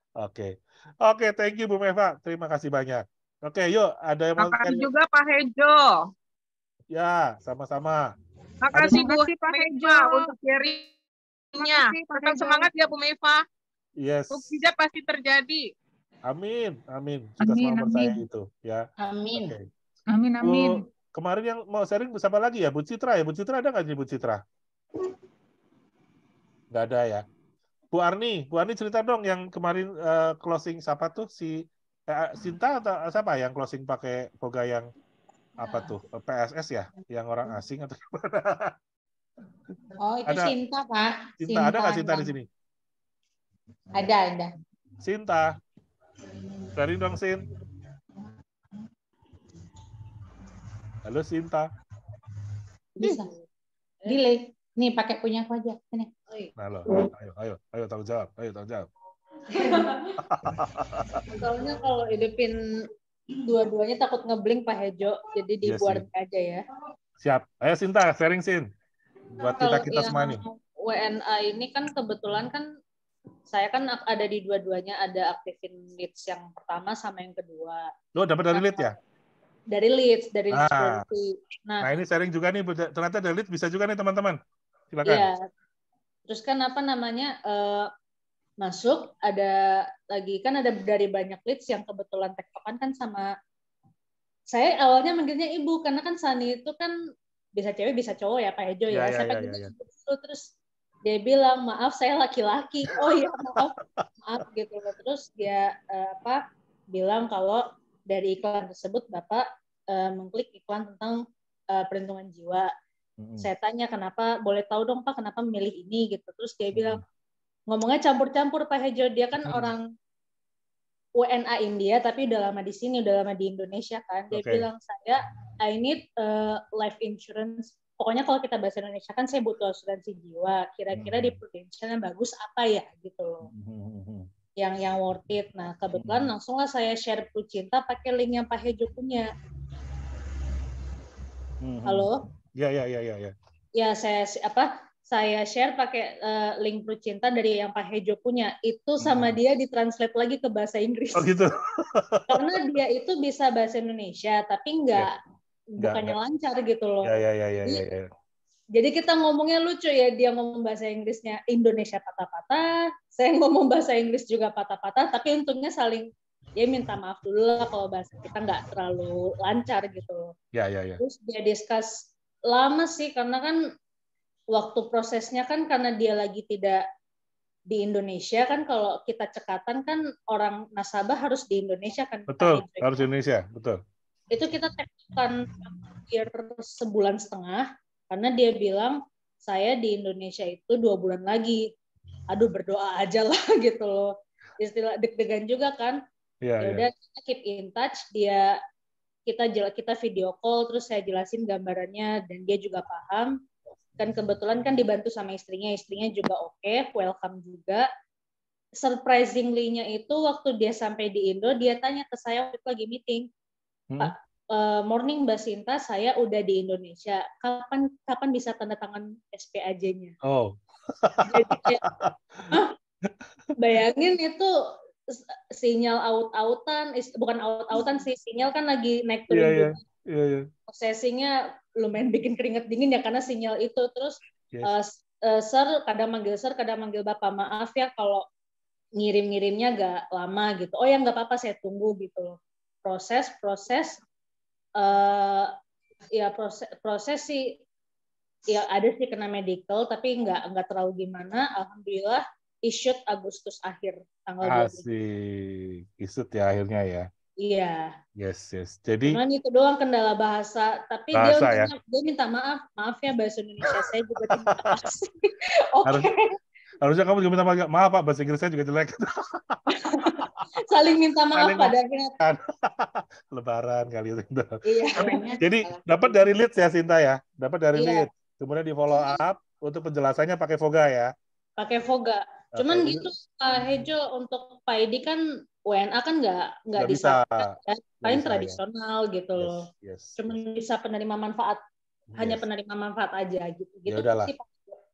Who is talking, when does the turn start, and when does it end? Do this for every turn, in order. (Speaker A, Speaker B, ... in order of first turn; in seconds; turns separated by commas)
Speaker A: 0.2-4.9, Speaker B: 4.4-6.1, Speaker A: 6.9-8.0, Speaker B: 8.6-10.9, Speaker A: 8.7-9.1, Speaker C: 8.8-10.3, Speaker B: 11.5-13.4, Speaker C: 11.6-12.7, Speaker A: 14.0-14.4, Speaker B: 14.3-15.7, Speaker A: 16.2-19.7, Speaker C: 17.4-18.2, Speaker D: 19.0-19.5, Speaker C: 20.1-20.8, Speaker A: 20.4-24.4, Speaker A: 26.7-27.2, Speaker A: 27.9-31.6, Speaker A: 32.1-34.9, Speaker A: 35.6-38.7, Speaker D: 40.0-42.3, Speaker A: 40.3-40.6, Speaker A: 41.4-42.5, Speaker D: 43.9-44.5, Speaker A: 45.0-45.5, Speaker A: 46.8-47.5, Speaker A: 51.0-51.7, Speaker D: 53.0-53.3, Speaker D: 54.1-56.1, Speaker A: 56.6-58.9, Speaker E: 59.7-60.1, Speaker A: 60.3-61.1, Speaker E: 61.4-62.6, Speaker E: 63.5-66.6, Speaker A: 65.6-66.1, Speaker A: 67.2-68.7, Speaker A: 69.4-70.4, Speaker E: 69.5-72.7, Speaker E: 73.5-77.8, Speaker A: 78.2-79.0, Speaker E: 78.5-78.9, Speaker E: 79.7-81.9, Speaker A: 80.5-81.0, Speaker A: 81.8-84.4, Speaker A: 84.9-85.3, Speaker E: 85.1-85.4, Speaker E: 86.3-87.9, Speaker E: 88.6-89.6, Speaker E: 90.1-93.3, Speaker E: 94.5-96.9, Speaker E: 97.6-100.5, Speaker A: 98.9-99.7, Speaker E: 101.0-103.7, Speaker A: 102.9-104.4, Speaker E: 104.2-106.4, Speaker E: 106.9-111.2, Speaker E: 111.7-112.7, Speaker A: 113.2-113.5, Speaker E: 113.4-117.0, Speaker A: 116.7-117.0, Speaker E: 117.7-119.8, Speaker A: 119.4-119.7, Speaker E: 121.2-133.5, Speaker A: 124.3-124.7, Speaker A: 130.9-131.4, Speaker A: 133.4-134.3, Speaker E: 134.6-139.3, Speaker A: 135.9-136.3, Speaker A: 141.6-143.3, Speaker E: 141.8-142.2, Speaker E: 143.8-151.3, Speaker A: 149.0-149.4, Speaker A: 151.2-152.4, Speaker E: 152.3-155.2, Speaker E: 155.8-157.8, Speaker A: 155.8-156.2, Speaker A: 157.0-158.1, Speaker E: 158.8-170.3, Speaker A: 170.5-171.0, Speaker E: 171.0-173.6, Speaker E: 174.5-176.8, Speaker E: 177.7-183.1, Speaker A: 182.3-183.8, Speaker E: 184.3-185.5, Speaker E: 186.1-191.6, Speaker E: 192.3-196.0, Speaker A: 196.4-196.9, Speaker E: 196.6-198.5, Speaker E: 199.3-203.3, Speaker E: 204.0-207.9, Speaker E: 208.8-213.3, Speaker E: 214.0-220.2, Speaker A: 220.2-222.5, Speaker E: 221.3-221.8, Speaker E: 223.6-224.5, Speaker E: 225.1-229.8, Speaker A: 229.3-230.4, Speaker E: 230.7-238.2, Speaker E: 239.0-244.0, Speaker E: 244.8-245.5, Speaker E: 246.2-247.6, Speaker E: 248.5-254.8, Speaker A: 254.4-257.1, Speaker E: 257.4-257.9, Speaker A: 258.2-259.2, Speaker E: 259.1-266.2, Speaker A: 261.1-261.7, Speaker A: 263.6-264.8, Speaker A: 266.8-269.6, Speaker E: 269.8-272.1, Speaker A: 271.3-281.1, Speaker E: 274.7-275.2, Speaker D: 275.0-276.0, Speaker E: 277.8-278.1, Speaker E: 281.6-289.6, Speaker A: 282.5-283.1, Speaker A: 286.8-288.6, Speaker A: 289.4-290.4, Speaker E: 290.2-291.6, Speaker A: 292.1-292.4, Speaker E: 292.2-294.8, Speaker A: 293.9-294.3